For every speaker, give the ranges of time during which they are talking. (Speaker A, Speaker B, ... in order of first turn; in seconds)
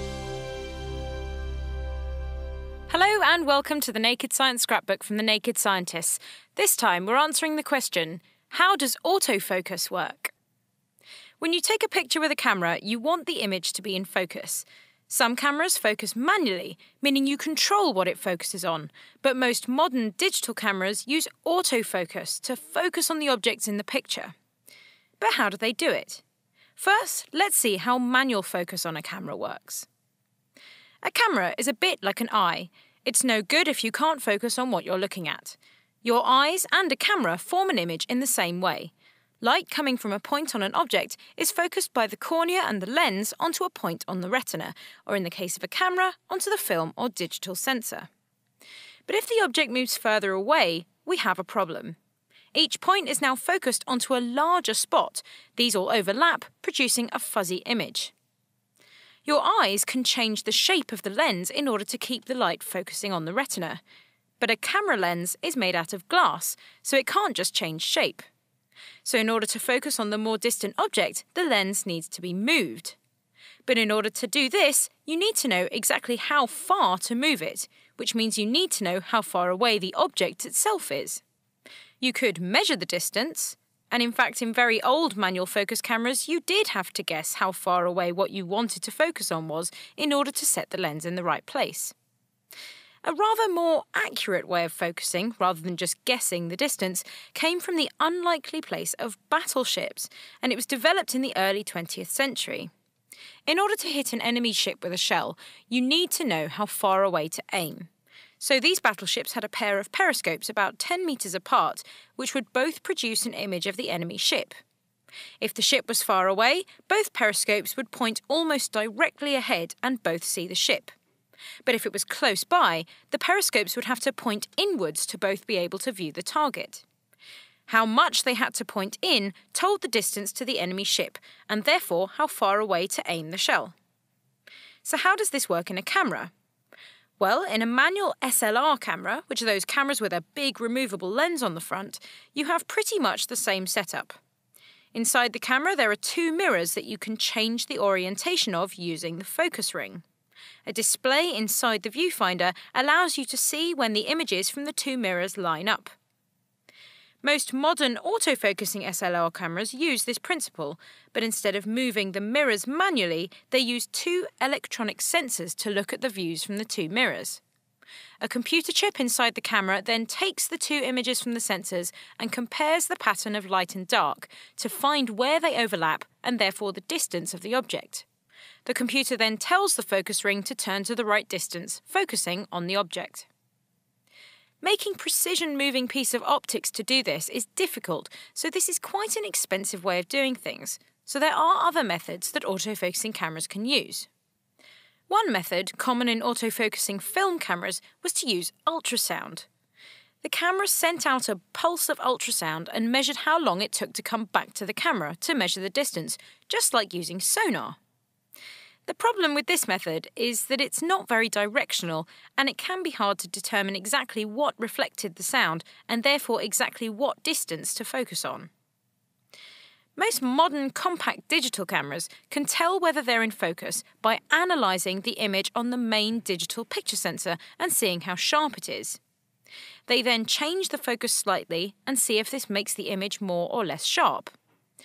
Speaker A: 2.9-10.3, 11.4-24.3, 25.2-26.2, 26.8-29.9, 31.0-48.1, 49.1-52.0, 52.5-58.1, 59.2-63.8, 64.4-68.2, 69.0-73.0, 73.7-81.2, 82.0-91.9, 93.0-102.7, 103.5-114.5, 115.4-120.9, 121.6-126.8, 127.7-133.7, 134.8-136.3, 137.2-144.2, 144.9-150.0, 150.7-155.9, 157.2-167.4, 168.2-178.1, 178.7-183.3, 184.6-194.1, 195.1-199.5, 200.2-207.8, 208.8-218.5, 219.9-229.0, 229.9-234.3